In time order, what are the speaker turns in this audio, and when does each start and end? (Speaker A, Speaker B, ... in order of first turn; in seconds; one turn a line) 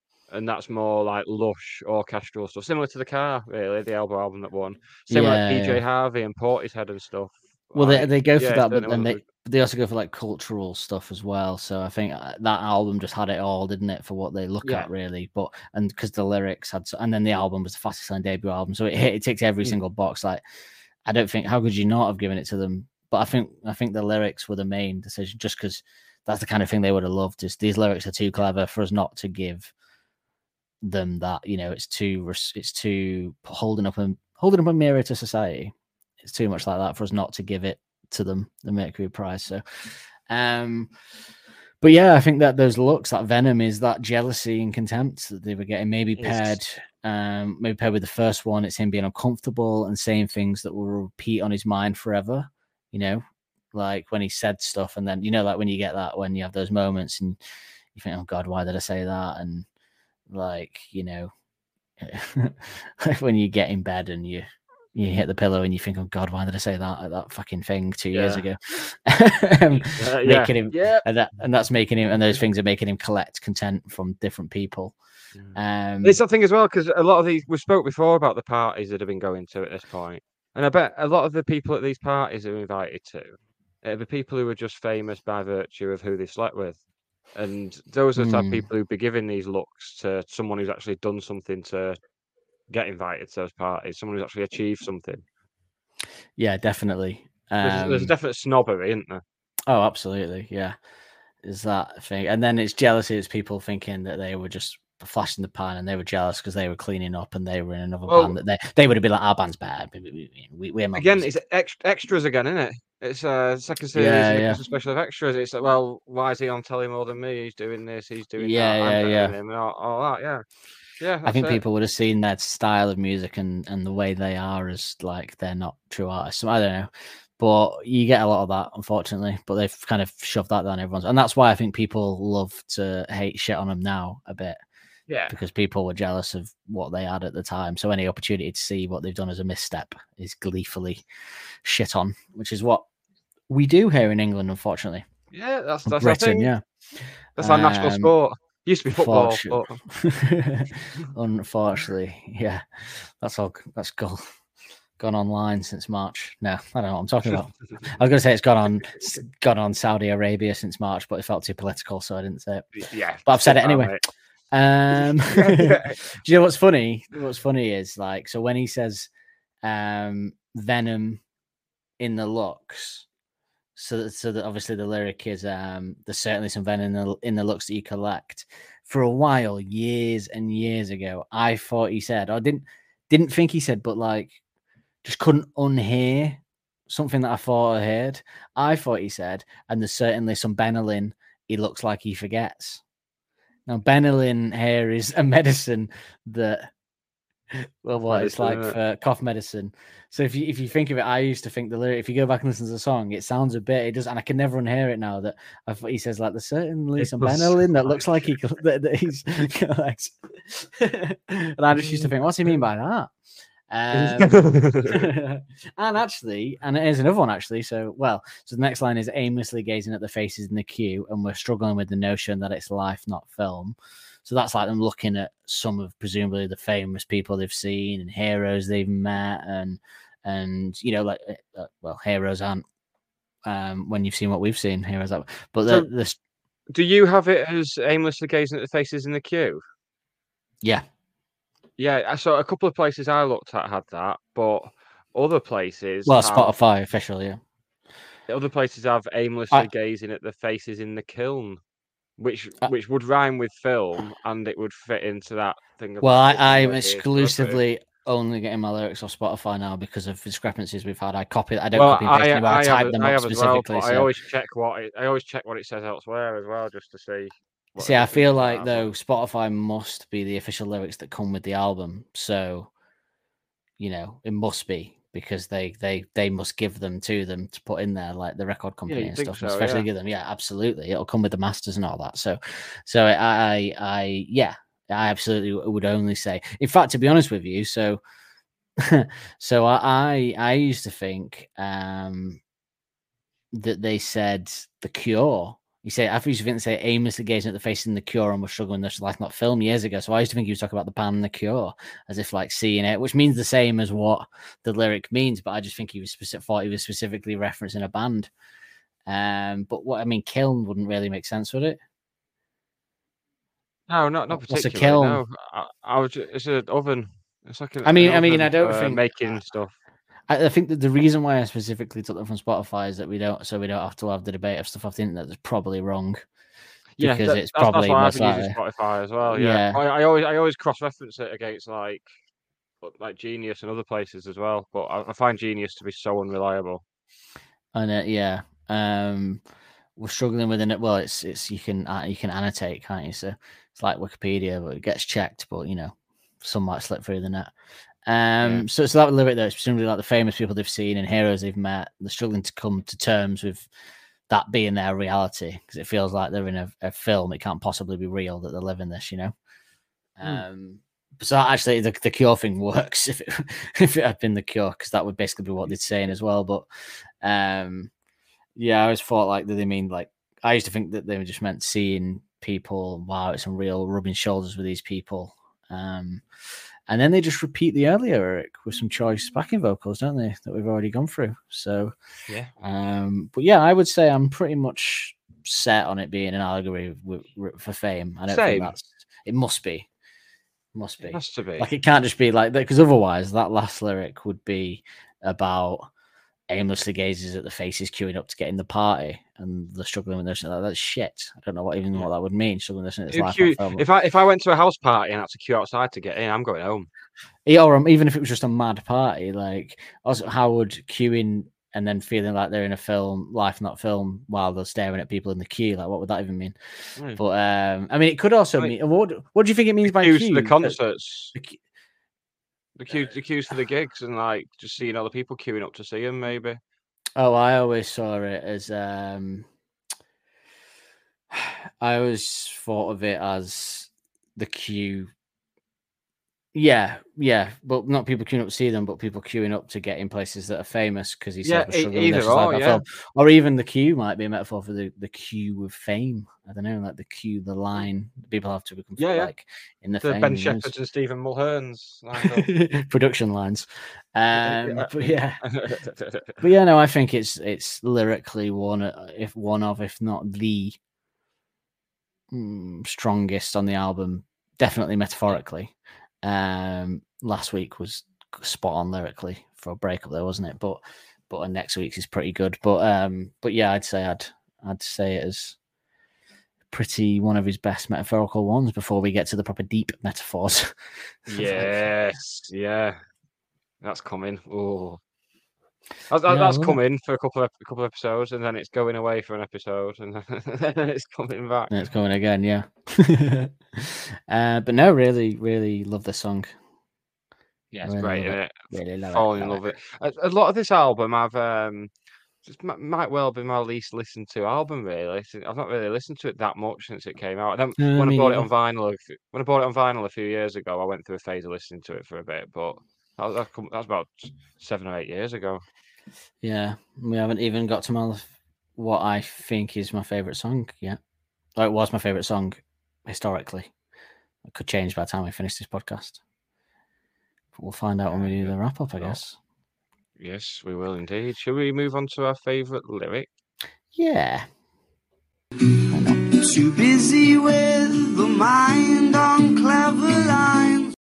Speaker A: 0.3-9.2
Speaker B: 5.1-5.8
Speaker B: 7.7-20.4
Speaker A: 14.6-14.9
Speaker B: 21.1-29.7
Speaker B: 30.8-40.9
Speaker B: 41.8-57.4
Speaker A: 46.2-46.6
Speaker B: 57.9-59.7
Speaker B: 60.3-61.3
Speaker B: 62.0-75.0
Speaker A: 68.1-68.4
Speaker A: 69.7-71.0
Speaker A: 75.3-86.8
Speaker B: 75.5-76.2
Speaker A: 87.3-92.0
Speaker B: 88.2-88.7
Speaker A: 92.7-95.2
Speaker B: 96.4-98.1
Speaker A: 97.6-99.2
Speaker B: 99.7-100.8
Speaker B: 101.4-111.3
Speaker A: 108.1-108.3
Speaker A: 110.9-120.4
Speaker B: 113.9-114.6
Speaker B: 118.4-119.3
Speaker A: 121.0-121.6
Speaker B: 121.2-134.6
Speaker A: 135.1-135.3
Speaker B: 135.3-141.0
Speaker B: 141.6-142.8
Speaker B: 143.5-145.1
Speaker A: 145.3-146.5
Speaker B: 145.8-146.6
Speaker B: 147.4-148.1
Speaker A: 147.4-149.8
Speaker B: 148.9-154.2
Speaker B: 155.0-162.7
Speaker A: 157.2-157.8
Speaker A: 162.7-164.0
Speaker B: 163.2-169.1
Speaker A: 164.9-166.0
Speaker B: 169.6-171.2
Speaker B: 172.0-173.1
Speaker B: 173.8-184.4
Speaker B: 185.0-192.8
Speaker B: 193.7-196.7
Speaker B: 197.6-213.1
Speaker A: 198.1-198.8
Speaker A: 207.0-208.3
Speaker A: 211.8-212.1
Speaker B: 213.7-232.6
Speaker A: 213.9-215.0
Speaker B: 233.4-236.2
Speaker A: 236.7-239.6
Speaker A: 241.8-246.5
Speaker B: 246.1-247.4
Speaker A: 248.3-251.6
Speaker A: 252.2-257.6
Speaker B: 256.0-264.1
Speaker A: 261.7-268.9
Speaker B: 267.8-272.7
Speaker B: 273.8-288.0
Speaker A: 278.9-279.9
Speaker B: 288.8-292.4
Speaker B: 293.5-308.3
Speaker B: 309.1-311.8
Speaker A: 313.9-319.7
Speaker B: 314.3-315.2
Speaker B: 317.8-319.0
Speaker B: 320.3-326.2
Speaker A: 327.0-332.1
Speaker B: 327.0-328.6
Speaker B: 329.3-329.8
Speaker A: 332.8-336.8
Speaker B: 337.7-339.4
Speaker B: 340.0-347.5
Speaker B: 348.1-353.7
Speaker A: 348.4-348.6
Speaker B: 354.3-359.3
Speaker B: 360.2-366.7
Speaker B: 367.2-367.9
Speaker B: 368.6-376.2
Speaker B: 376.9-381.9
Speaker B: 382.6-389.9
Speaker A: 388.3-388.7
Speaker B: 390.7-395.9
Speaker A: 391.0-391.7
Speaker B: 396.5-403.8
Speaker A: 403.1-406.9
Speaker B: 407.4-416.6
Speaker B: 417.1-420.8
Speaker A: 419.8-421.3
Speaker B: 421.3-421.6
Speaker A: 422.8-426.6
Speaker B: 427.1-429.5
Speaker B: 431.3-435.1
Speaker B: 436.5-450.7
Speaker A: 441.4-442.8
Speaker A: 449.0-449.3
Speaker A: 450.0-452.5
Speaker B: 452.2-455.4
Speaker A: 454.3-456.4
Speaker B: 456.4-460.8
Speaker B: 462.3-475.6
Speaker B: 476.7-480.7
Speaker A: 481.3-483.0
Speaker B: 481.3-481.9
Speaker A: 483.8-485.0
Speaker A: 486.1-491.7
Speaker B: 486.3-486.8
Speaker B: 491.7-496.5
Speaker A: 497.7-501.9
Speaker B: 497.8-499.6
Speaker A: 502.4-515.6
Speaker B: 507.8-508.5
Speaker B: 516.4-521.0
Speaker B: 521.5-523.7
Speaker B: 524.4-526.2
Speaker B: 527.5-529.4
Speaker A: 528.1-529.2
Speaker A: 530.2-533.3
Speaker B: 533.9-534.5
Speaker B: 535.9-536.2
Speaker C: 536.3-540.9